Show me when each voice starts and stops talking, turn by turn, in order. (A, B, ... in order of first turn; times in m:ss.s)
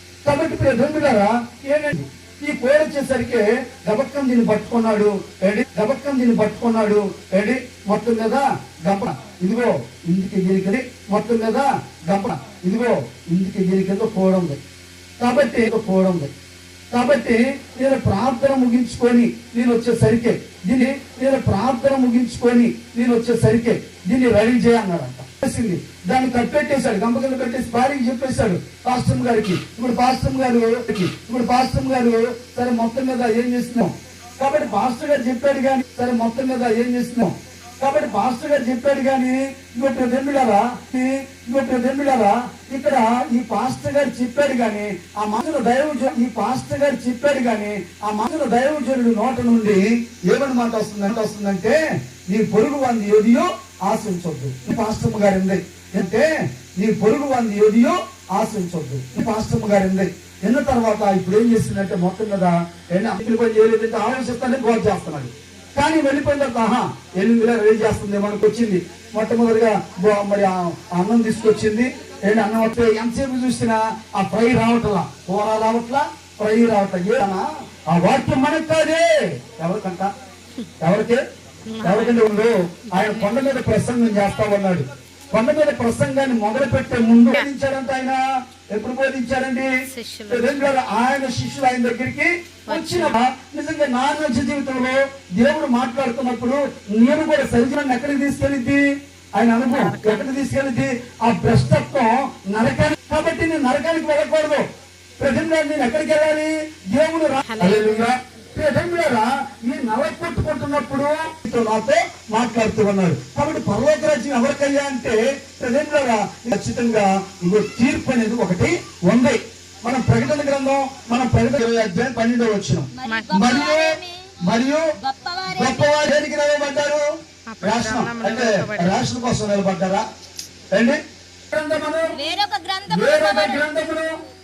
0:00.2-0:14.6 A
0:15.2-0:16.3 A
0:16.9-1:20.1 A
1:20.8-1:21.2 A
1:21.7-1:22.2 B
1:21.8-1:28.2 A
1:22.9-1:23.3 B
1:28.7-1:29.7 A
1:29.9-1:30.7 B
1:30.3-1:38.8 A
1:32.7-1:33.2 B
1:39.3-1:44.6 A
1:39.6-1:40.3 B
1:45.2-2:03.9 A
1:47.4-1:48.1 B
2:03.0-2:04.3 C
2:03.0-2:03.3 B
2:04.4-2:04.8 A
2:05.0-2:06.0 C
2:05.5-2:07.0 A
2:07.5-2:09.0 B
2:07.6-2:10.0 A
2:10.7-2:11.0 A
2:11.5-2:12.2 A
2:12.1-2:13.7 C
2:12.9-2:14.1 A